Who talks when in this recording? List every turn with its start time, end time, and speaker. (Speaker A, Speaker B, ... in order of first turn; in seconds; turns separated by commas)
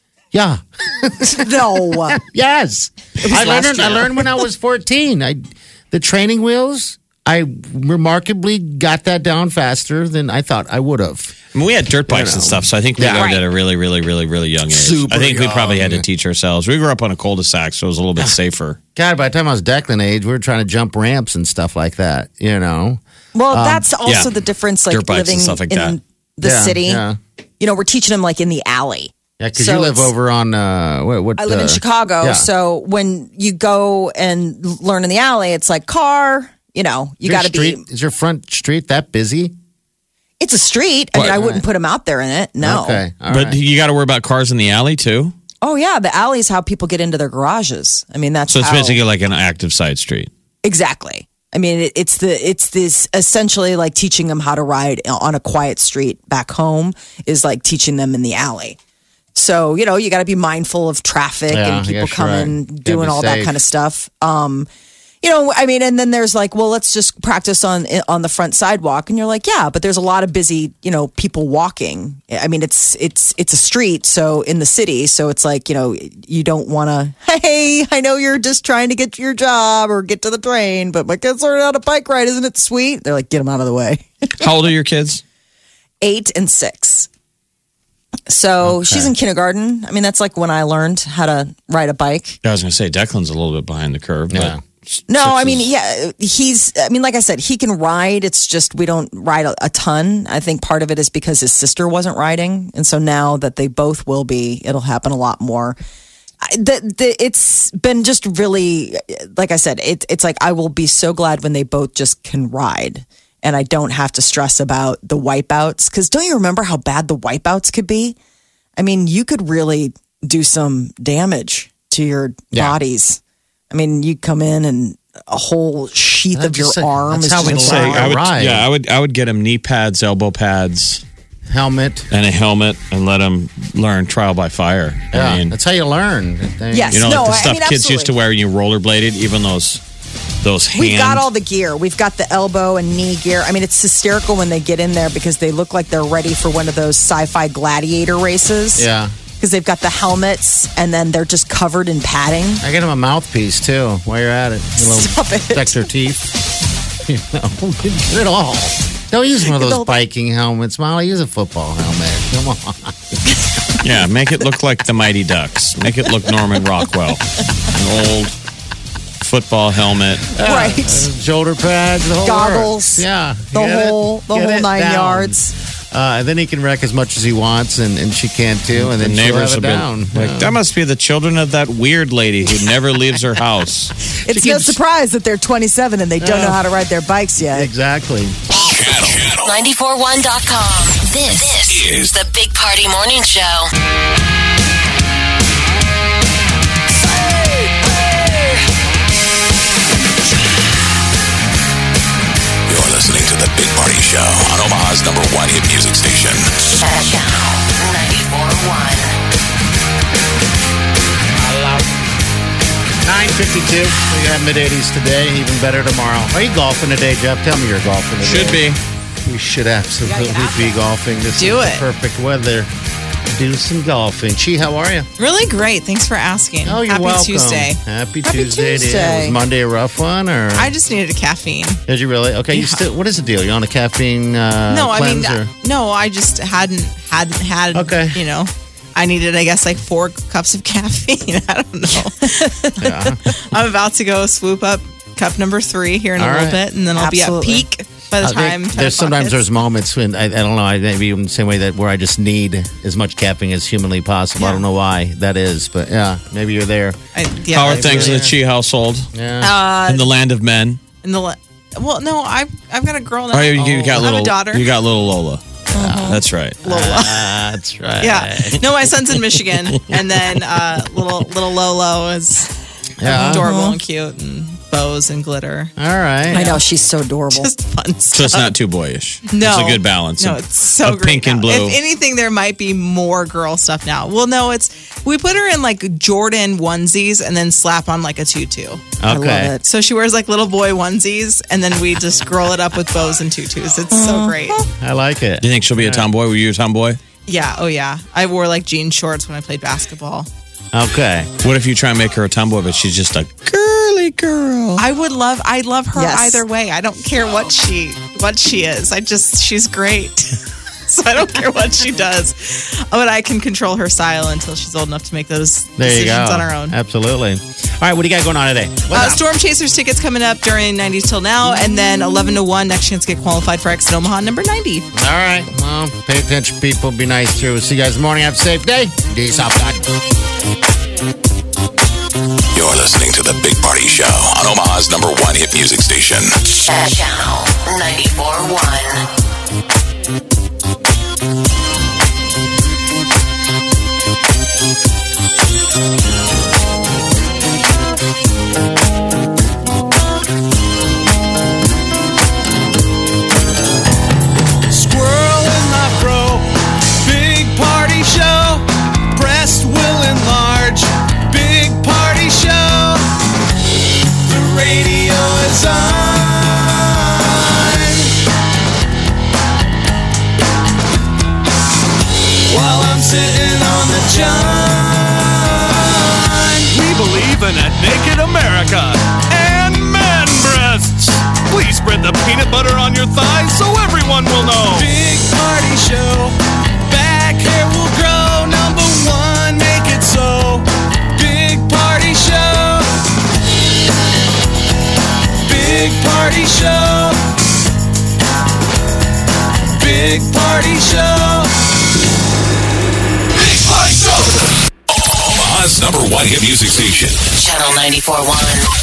Speaker A: 0.3-11.3, Speaker B: 1.2-2.2, Speaker B: 3.2-4.3, Speaker C: 11.5-18.8, Speaker A: 12.1-13.3, Speaker B: 13.1-13.4, Speaker A: 14.7-16.1, Speaker A: 19.0-23.9, Speaker B: 23.3-27.1, Speaker C: 24.1-24.4, Speaker C: 24.9-26.0, Speaker A: 26.4-27.2, Speaker B: 27.6-30.1, Speaker A: 29.4-32.5, Speaker B: 31.4-37.8, Speaker A: 37.2-39.5, Speaker B: 40.4-43.0, Speaker A: 41.2-41.6, Speaker A: 42.6-43.6, Speaker C: 43.3-45.4, Speaker B: 45.6-49.0, Speaker C: 48.5-50.3, Speaker B: 50.6-58.8, Speaker B: 59.3-64.7, Speaker A: 61.5-63.6, Speaker B: 65.2-84.5, Speaker C: 84.4-85.2, Speaker B: 86.0-87.1, Speaker B: 88.3-92.4, Speaker A: 88.6-89.1, Speaker C: 92.4-95.6, Speaker A: 94.3-94.6, Speaker B: 95.1-105.8, Speaker B: 106.4-118.2, Speaker B: 118.8-128.2, Speaker A: 122.5-122.8, Speaker A: 126.3-128.7, Speaker C: 127.4-131.0, Speaker A: 131.5-132.1, Speaker C: 132.1-135.6, Speaker A: 135.1-137.1, Speaker B: 136.7-138.1, Speaker C: 136.9-139.8, Speaker C: 140.4-141.2, Speaker B: 140.7-152.6, Speaker A: 148.8-149.1, Speaker A: 152.6-156.3, Speaker B: 154.8-155.8, Speaker A: 157.1-162.9, Speaker B: 159.4-159.9, Speaker C: 163.8-168.4, Speaker C: 169.2-170.3, Speaker A: 170.3-175.4, Speaker B: 170.4-171.1, Speaker B: 172.2-175.5, Speaker A: 175.9-180.6, Speaker C: 178.7-183.9, Speaker A: 184.2-184.8, Speaker B: 184.2-187.7, Speaker A: 186.2-186.6, Speaker A: 187.5-188.4, Speaker D: 188.7-189.7, Speaker E: 189.0-193.7, Speaker D: 191.7-192.2, Speaker D: 202.7-206.5, Speaker E: 206.8-209.1, Speaker A: 211.4-211.9, Speaker A: 213.1-222.7, Speaker C: 218.2-218.8, Speaker B: 220.0-220.8, Speaker F: 221.4-221.8, Speaker A: 223.3-225.1, Speaker F: 225.2-227.8, Speaker A: 226.7-230.7, Speaker B: 228.2-229.4, Speaker F: 230.6-231.8, Speaker A: 231.9-235.5, Speaker F: 232.5-232.8, Speaker F: 234.7-249.4, Speaker A: 237.7-238.2, Speaker A: 242.8-243.2, Speaker A: 246.2-246.6, Speaker B: 246.9-247.7, Speaker A: 248.2-257.0, Speaker F: 254.4-254.6, Speaker F: 257.1-258.3, Speaker C: 257.5-260.8, Speaker A: 257.7-258.4, Speaker A: 259.1-259.6, Speaker F: 261.0-264.7, Speaker C: 263.3-265.4, Speaker A: 265.7-268.6, Speaker B: 265.8-266.2, Speaker C: 266.1-266.7, Speaker F: 266.6-267.4, Speaker F: 268.0-272.5, Speaker C: 269.2-270.3, Speaker A: 273.0-273.5, Speaker F: 273.0-275.7, Speaker B: 273.1-273.8, Speaker A: 275.8-276.6, Speaker B: 276.3-277.5, Speaker F: 277.3-278.6, Speaker C: 278.1-281.8, Speaker F: 279.3-288.8, Speaker A: 289.0-289.5, Speaker B: 289.1-289.6, Speaker F: 289.6-294.6, Speaker B: 293.9-294.6, Speaker A: 294.8-296.1, Speaker C: 295.4-297.0, Speaker F: 297.3-300.3, Speaker A: 300.7-301.3, Speaker C: 301.4-304.9, Speaker F: 304.8-316.8, Speaker B: 305.9-306.4, Speaker A: 315.8-319.2, Speaker F: 318.9-324.9, Speaker A: 324.9-329.8, Speaker D: 332.5-336.3, Speaker E: 336.6-339.0, Speaker G: 354.7-363.1, Speaker G: 364.3-368.1, Speaker G: 372.5-386.4, Speaker G: 386.9-392.9, Speaker G: 395.4-397.2, Speaker G: 399.8-401.5, Speaker D: 404.9-407.2, Speaker E: 407.3-408.7